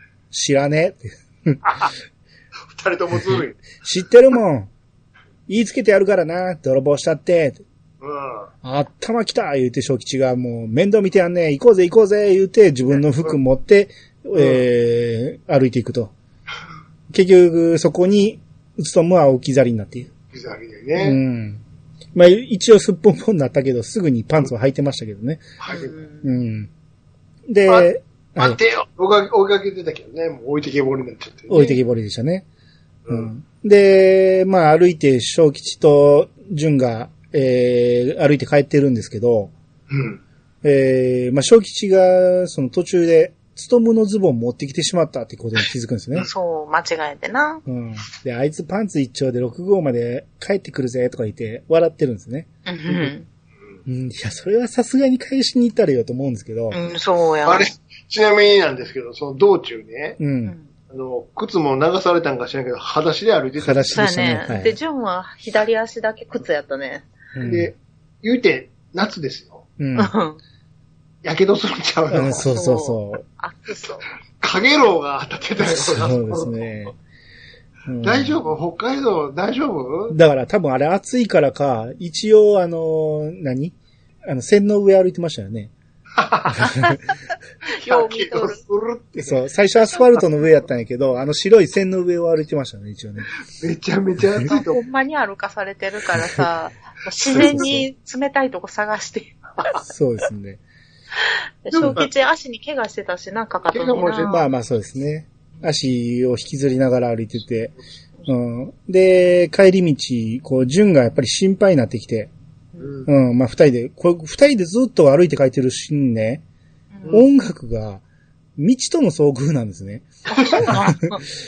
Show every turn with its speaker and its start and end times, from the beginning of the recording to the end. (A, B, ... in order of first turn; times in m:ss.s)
0:00.3-0:01.9 A
0:02.7-0:03.6 B
0:03.2-0:04.7 A
0:05.5-0:07.6 A
0:08.0-0:08.5 B
0:08.6-0:16.1 A
0:14.3-0:14.6 B
0:17.1-0:20.1 A
0:20.3-0:21.2 B
0:21.0-0:21.6 A
0:22.1-0:25.4 A
0:25.6-0:25.9 B
0:25.7-0:26.2 C
0:26.2-0:26.7 A
0:27.5-0:28.6 A
0:27.6-0:31.8 B
0:31.5-0:32.4 A
0:33.0-0:33.3 B
0:33.1-0:39.5 A
0:39.9-0:40.2 B
0:40.6-0:46.3 A
0:46.2-0:47.6 C
0:47.6-0:53.1 A
0:52.6-0:53.3 C
0:53.8-0:56.8 A
0:56.7-0:57.7 C
0:57.4-1:00.2 B
1:00.2-1:00.5 A
1:00.9-1:04.3 B
1:03.6-1:04.8 A
1:03.9-1:07.1 C
1:07.3-1:07.7 A
1:07.4-1:09.6 B
1:09.8-1:10.1 A
1:10.0-1:10.4 C
1:11.2-1:12.4 B
1:12.1-1:13.2 A
1:12.5-1:14.0 C
1:14.4-1:16.6 B
1:15.6-1:16.9 A
1:17.8-1:18.4 A
1:18.0-1:20.2 B
1:20.1-1:23.8 A
1:24.3-1:25.7 A
1:26.2-1:26.7 B
1:26.5-1:27.0 A
1:27.7-1:28.6 C
1:27.8-1:29.4 B
1:29.2-1:33.3 A
1:33.6-1:34.8 B
1:34.5-1:39.8 C
1:37.3-1:37.7 B
1:37.3-1:37.8 A
1:39.8-1:40.6 A
1:41.6-1:44.4 C
1:41.7-1:42.1 B
1:43.7-1:44.4 B
1:44.2-1:47.8 A
1:48.3-1:52.3 A
1:52.8-1:53.1 B
1:53.0-1:56.4 A
1:57.1-1:58.0 A
1:58.6-2:01.2 A
2:00.3-2:01.2 C
2:00.3-2:00.8 B